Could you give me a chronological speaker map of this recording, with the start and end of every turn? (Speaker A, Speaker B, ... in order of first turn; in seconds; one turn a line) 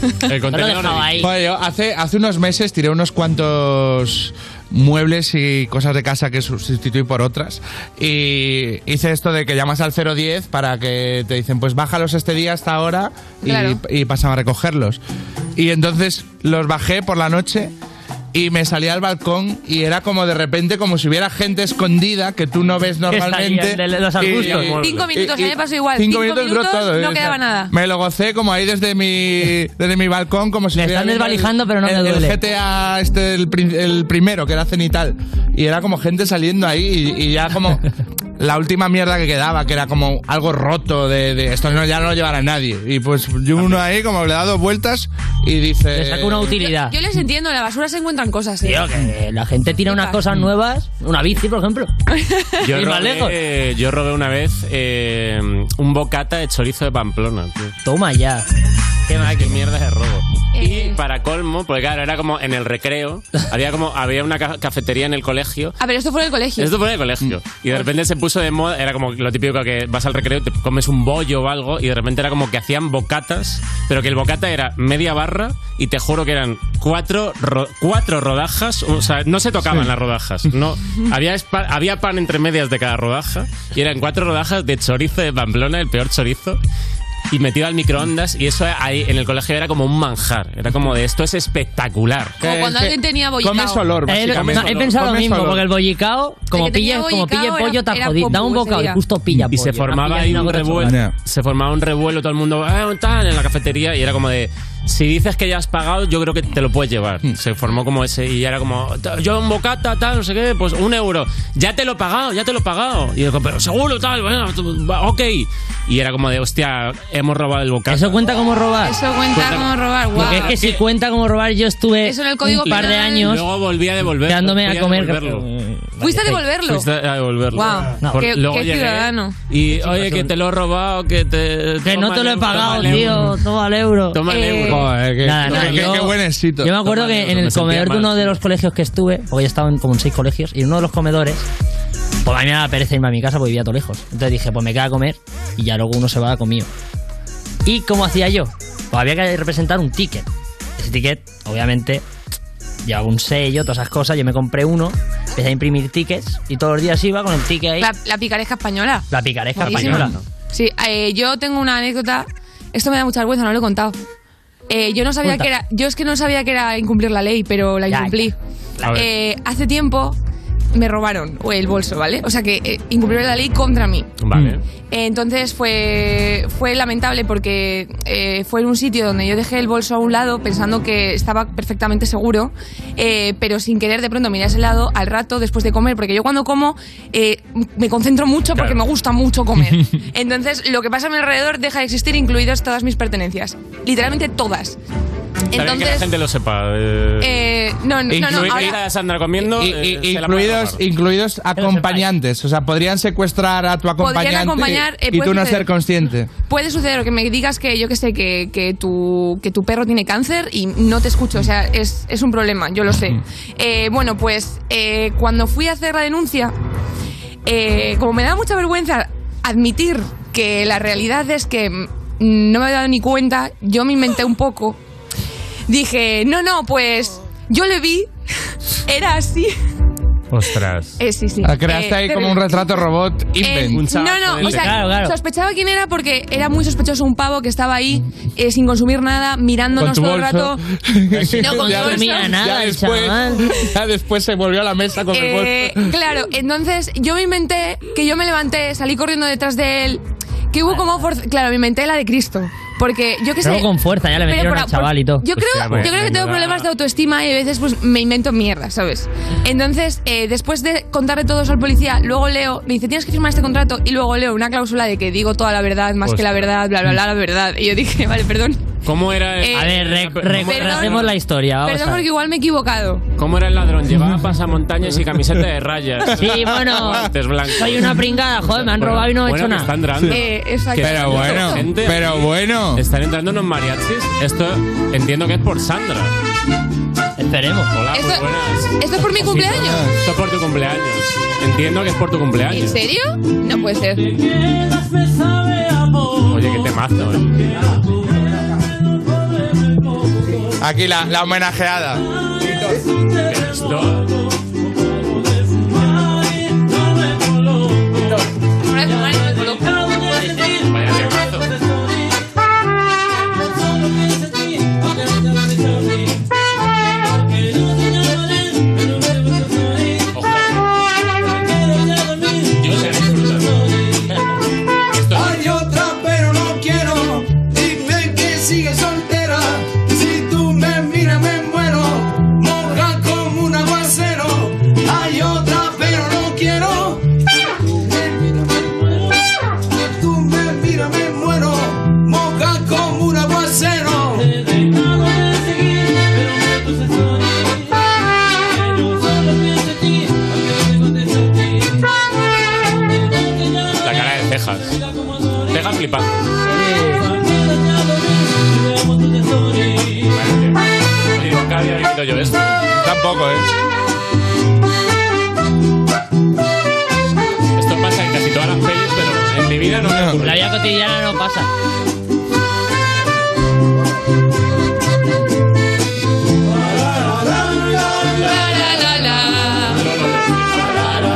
Speaker A: 0.3-1.3
Speaker B: 0.5-1.3
Speaker C: 1.2-15.0
Speaker D: 13.4-13.8
Speaker C: 15.6-17.7
Speaker C: 18.3-37.9
Speaker B: 23.1-24.8
Speaker A: 24.3-25.1
Speaker D: 24.8-27.7
Speaker B: 30.8-32.4
Speaker C: 38.4-46.6
Speaker A: 43.6-43.8
Speaker B: 46.0-47.0
Speaker D: 46.7-48.9
Speaker B: 48.6-51.9
Speaker D: 49.9-50.2
Speaker D: 52.1-52.6
Speaker A: 52.6-57.8
Speaker B: 52.7-53.4
Speaker B: 57.8-58.5
Speaker B: 59.1-59.6
Speaker A: 59.1-65.8
Speaker D: 60.5-61.0
Speaker D: 65.8-66.7
Speaker A: 66.6-86.6
Speaker A: 87.3-92.5
Speaker C: 92.4-95.7
Speaker D: 92.4-94.0
Speaker B: 94.1-101.0
Speaker A: 94.2-95.0
Speaker D: 96.5-99.0
Speaker A: 99.5-118.2
Speaker C: 100.8-101.1
Speaker B: 117.9-119.0
Speaker D: 118.8-120.6
Speaker A: 119.3-120.8
Speaker B: 120.2-123.5
Speaker D: 122.0-123.3
Speaker A: 122.7-125.5
Speaker B: 124.2-126.4
Speaker D: 126.0-126.9
Speaker A: 126.6-133.4
Speaker D: 127.5-129.4
Speaker B: 129.9-130.3
Speaker B: 131.8-134.2
Speaker C: 132.8-133.2
Speaker A: 134.1-135.9
Speaker D: 134.3-134.9
Speaker C: 134.6-136.8
Speaker B: 135.2-141.5
Speaker A: 136.8-138.4
Speaker B: 142.2-146.7
Speaker B: 147.7-150.3
Speaker B: 150.8-152.0
Speaker B: 152.8-157.9
Speaker D: 157.8-159.1
Speaker B: 159.1-160.1
Speaker A: 159.6-160.2
Speaker D: 159.6-164.0
Speaker D: 164.7-168.3
Speaker B: 167.9-168.2
Speaker A: 168.8-169.1
Speaker D: 168.9-170.2
Speaker D: 170.7-174.1
Speaker A: 174.2-174.6
Speaker D: 174.9-194.8
Speaker A: 188.5-188.8
Speaker D: 195.5-196.1
Speaker A: 195.5-197.4
Speaker D: 197.2-198.8
Speaker C: 198.1-198.8
Speaker A: 198.1-200.8
Speaker C: 199.4-206.3
Speaker B: 201.6-202.1
Speaker D: 204.0-205.7
Speaker D: 206.5-216.5
Speaker D: 217.5-224.8
Speaker D: 225.7-228.1
Speaker D: 228.9-229.5
Speaker A: 230.3-231.0
Speaker D: 231.0-232.8
Speaker C: 231.4-233.8
Speaker D: 233.4-240.6
Speaker A: 233.7-234.9
Speaker B: 234.4-235.2
Speaker C: 239.8-245.9
Speaker B: 241.1-243.6
Speaker D: 241.4-242.4
Speaker D: 245.1-253.7
Speaker B: 253.4-255.3
Speaker D: 254.2-268.7
Speaker A: 255.3-256.7
Speaker A: 266.0-266.5
Speaker A: 268.8-271.1
Speaker D: 269.4-269.7
Speaker B: 269.5-272.1
Speaker D: 270.4-271.0
Speaker D: 271.6-273.1
Speaker A: 273.2-286.1
Speaker B: 276.2-279.7
Speaker C: 276.2-276.9
Speaker D: 280.1-281.6
Speaker C: 280.8-282.8
Speaker B: 287.2-287.7
Speaker A: 287.7-292.8
Speaker D: 287.9-288.3
Speaker D: 288.8-289.9
Speaker C: 289.4-289.9
Speaker D: 292.5-294.0
Speaker E: 294.5-296.2
Speaker A: 296.3-297.3
Speaker C: 300.6-302.0
Speaker A: 303.3-304.0
Speaker E: 303.4-303.9
Speaker E: 305.5-308.0
Speaker D: 308.6-309.7
Speaker E: 309.0-310.6
Speaker A: 310.7-311.5
Speaker E: 314.0-315.9
Speaker E: 317.2-319.8
Speaker A: 320.1-320.6
Speaker E: 321.2-323.0
Speaker A: 322.6-323.6
Speaker A: 324.9-325.4
Speaker E: 325.2-328.7
Speaker E: 329.8-337.0
Speaker E: 340.7-347.5
Speaker E: 348.7-351.2
Speaker A: 353.8-354.8
Speaker A: 355.5-356.2
Speaker B: 356.5-357.1
Speaker E: 357.1-360.0
Speaker A: 360.1-362.6
Speaker C: 362.8-363.5
Speaker A: 367.6-370.5
Speaker C: 369.8-370.2
Speaker B: 370.2-371.5
Speaker D: 378.1-379.8
Speaker A: 379.7-380.6